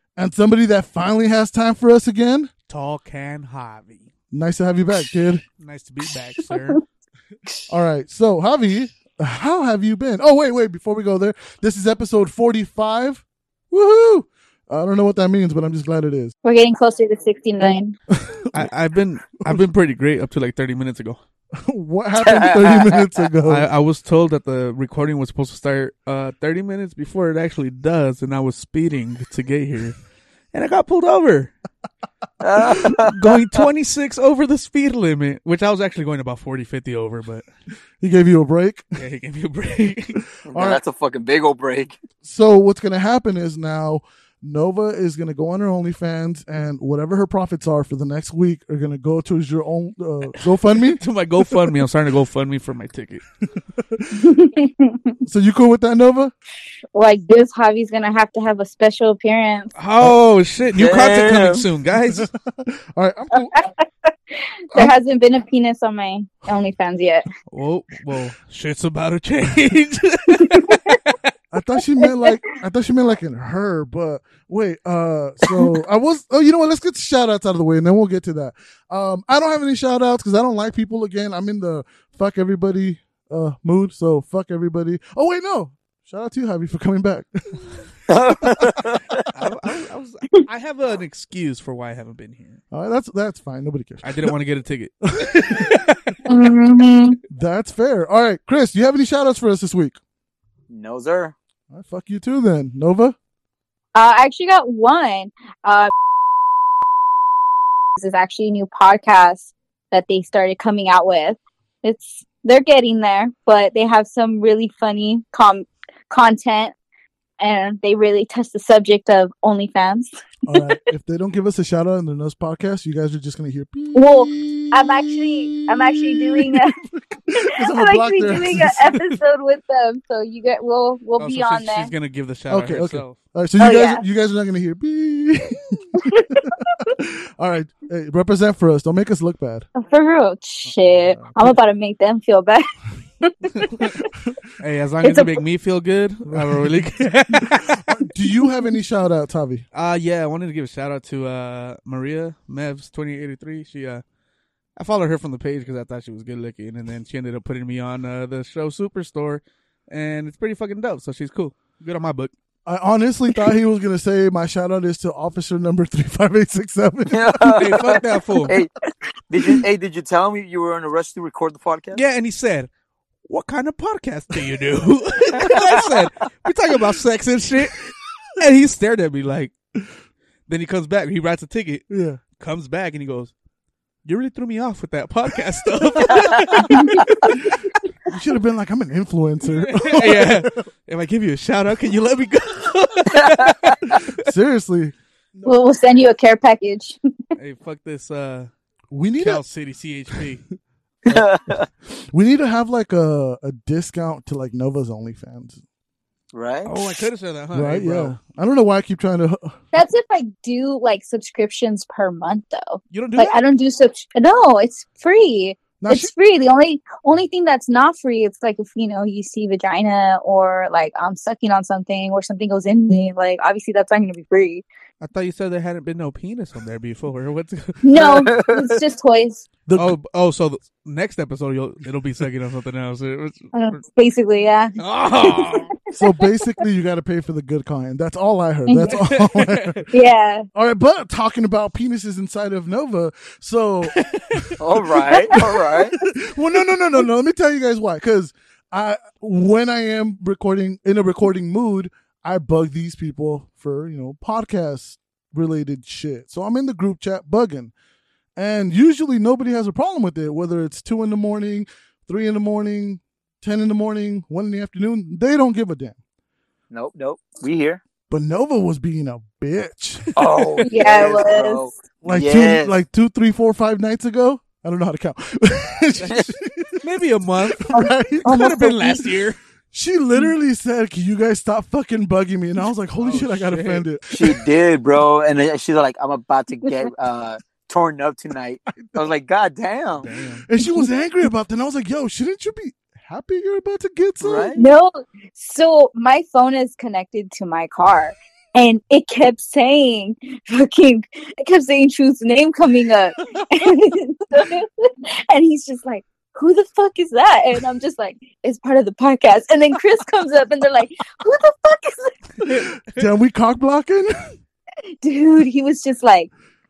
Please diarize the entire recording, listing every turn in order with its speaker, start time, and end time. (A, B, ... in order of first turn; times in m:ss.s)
0:00.2-0:02.5 A
0:02.7-0:04.1 B
0:04.3-0:05.4 A
0:05.6-0:06.8 B
0:07.7-0:16.3 A
0:16.4-0:18.0 C
0:18.1-0:18.7 A
0:18.5-0:21.2 B
0:21.6-0:23.7 A
0:22.3-0:23.0 D
0:23.5-0:30.0 B
0:30.5-0:31.5 B
0:32.4-0:33.6 D
0:32.8-0:37.5 B
0:38.0-0:39.0 A
0:39.0-0:40.2 B
0:40.4-0:42.0 D
0:40.5-0:40.8 A
0:42.2-0:51.0 A
0:50.8-0:53.2 B
0:53.8-0:54.3 A
0:54.2-0:55.2 C
0:55.3-0:56.3 A
0:56.9-0:59.7 C
0:59.8-1:02.3 B
1:00.7-1:01.6 D
1:02.1-1:03.5 A
1:03.4-1:07.3 C
1:07.5-1:11.3 B
1:10.4-1:10.9 C
1:11.5-1:27.8 A
1:28.1-1:29.2 D
1:29.3-1:32.6 B
1:32.7-1:34.3 A
1:34.0-1:36.2 B
1:35.1-1:35.8 A
1:36.2-1:37.2 C
1:37.3-1:40.0 A
1:40.7-1:41.3 D
1:41.7-1:43.2 A
1:44.0-1:45.9 C
1:48.0-1:56.7 C
1:57.4-2:00.1 C
2:00.5-2:09.0 A
2:04.0-2:06.8 C
2:07.7-2:11.9 C
2:11.2-2:13.2 B
2:12.5-2:19.7 A
2:13.6-2:14.0 C
2:16.0-2:16.5 C
2:19.8-2:22.7 C
2:20.7-2:21.5 A
2:23.2-2:23.8 C
2:24.0-2:24.4 A
2:24.6-2:28.0 B
2:25.0-2:25.3 C
2:26.3-2:29.6 A
2:29.7-2:34.0 B
2:34.8-2:42.3 B
2:42.7-2:47.3 A
2:47.1-2:48.7 D
2:47.4-2:48.6 B
2:49.3-2:52.0 D
2:51.9-2:52.7 B
2:53.3-2:59.5 B
3:00.5-3:03.3 B
3:01.9-3:02.2 A
3:04.0-3:07.4 B
3:07.2-3:10.4 A
3:09.5-3:14.2 B
3:13.4-3:13.8 D
3:13.9-3:15.6 A
3:15.4-3:17.0 C
3:17.4-3:18.5 B
3:18.9-3:19.4 A
3:19.2-3:20.4 B
3:21.1-3:21.7 D
3:21.9-3:25.6 A
3:26.3-3:27.1 D
3:26.6-3:28.2 B
3:27.5-3:29.6 A
3:29.7-3:44.6 C
3:32.9-3:33.4 B
3:35.8-3:36.1 A
3:45.0-3:48.3 B
3:47.8-3:49.4 C
3:48.0-3:48.8 D
3:49.7-3:50.0 A
3:49.8-3:53.8 B
3:53.5-3:55.5 C
3:54.8-3:55.8 B
3:55.9-3:59.9 A
3:58.7-3:59.0 C
3:58.9-3:59.8 B
3:59.9-4:00.5 C
4:00.6-4:04.6 A
4:03.9-4:04.4 B
4:04.6-4:06.0 D
4:05.3-4:17.7 A
4:18.4-4:26.0 A
4:26.7-4:27.8 D
4:28.1-4:30.1 A
4:30.2-4:32.7 D
4:30.2-4:30.7 B
4:30.7-4:31.7 C
4:32.0-4:36.8 A
4:36.8-4:39.4 B
4:37.6-4:38.6 A
4:38.2-4:39.0 C
4:39.7-4:44.3 A
4:43.0-4:43.8 B
4:44.1-4:50.1 D
4:48.8-4:49.0 A
4:50.0-4:50.4 B
4:50.5-4:54.5 A
4:54.2-4:54.7 D
4:54.5-5:12.2 C
5:12.4-5:14.1 A
5:12.5-5:13.0 B
5:15.0-5:16.3 C